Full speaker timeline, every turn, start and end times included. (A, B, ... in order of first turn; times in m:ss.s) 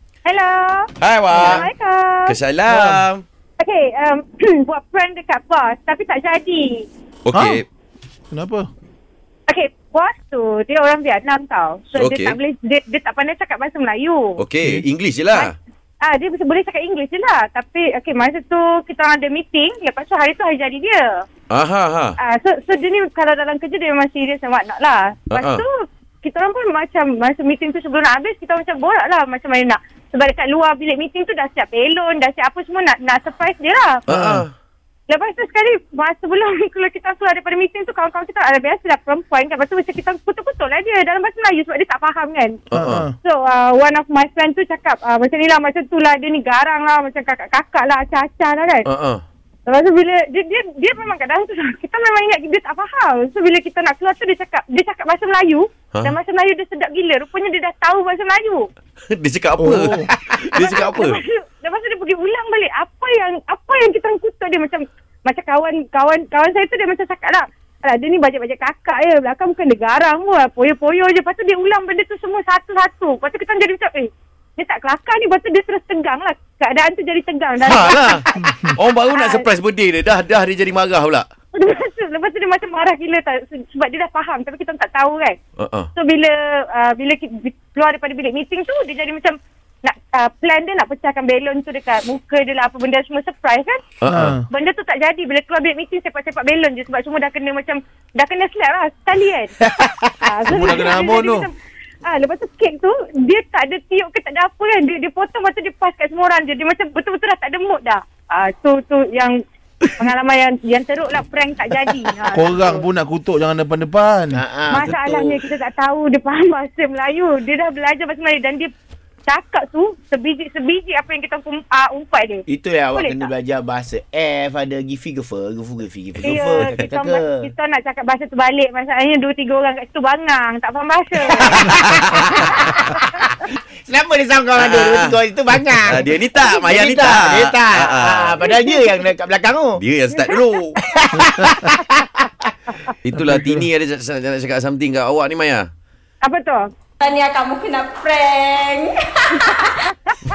0:00.2-0:02.4 A
0:01.0-0:01.7 B
0:02.2-0:03.2 B
0:02.7-0:03.0 C
0:03.6-0:06.9 A
0:07.2-0:07.6 B
0:07.3-0:07.6 C
0:08.3-0:08.7 C
0:09.5-0:14.3 A
0:11.9-0:12.4 B
0:14.4-0:15.5 B
0:15.3-0:21.2 A
0:21.5-0:22.2 B
0:22.2-0:34.0 A
0:25.3-0:25.6 B
0:34.1-0:34.4 C
0:34.1-0:34.5 B
0:35.1-0:42.6 A
0:42.7-0:43.0 B
0:42.7-0:43.2 C
0:43.2-0:48.9 A
0:48.8-0:49.2 B
0:49.7-0:58.7 A
0:59.1-1:01.2 B
0:59.6-1:00.1 C
1:00.5-1:19.5 A
1:17.6-1:21.2 B
1:21.5-1:25.4 A
1:25.6-1:25.9 B
1:25.9-1:33.8 A
1:34.0-1:34.4 B
1:34.0-1:34.4 C
1:34.5-1:41.5 A
1:39.6-1:40.2 D
1:40.5-1:41.5 C
1:42.0-1:52.9 A
1:52.3-1:54.4 C
1:54.3-1:55.4 D
1:54.7-1:58.7 A
1:59.3-2:03.3 A
2:02.5-2:07.5 D
2:06.2-2:06.8 B
2:06.2-2:13.3 A
2:11.4-2:19.8 D
2:11.4-2:13.0 B
2:14.6-2:15.2 B
2:15.8-2:18.4 B
2:18.4-2:18.9 A
2:19.8-2:20.8 B
2:20.8-2:22.5 D
2:23.0-2:25.7 B
2:23.3-2:23.6 C
2:26.2-2:26.6 A
2:27.0-2:29.9 E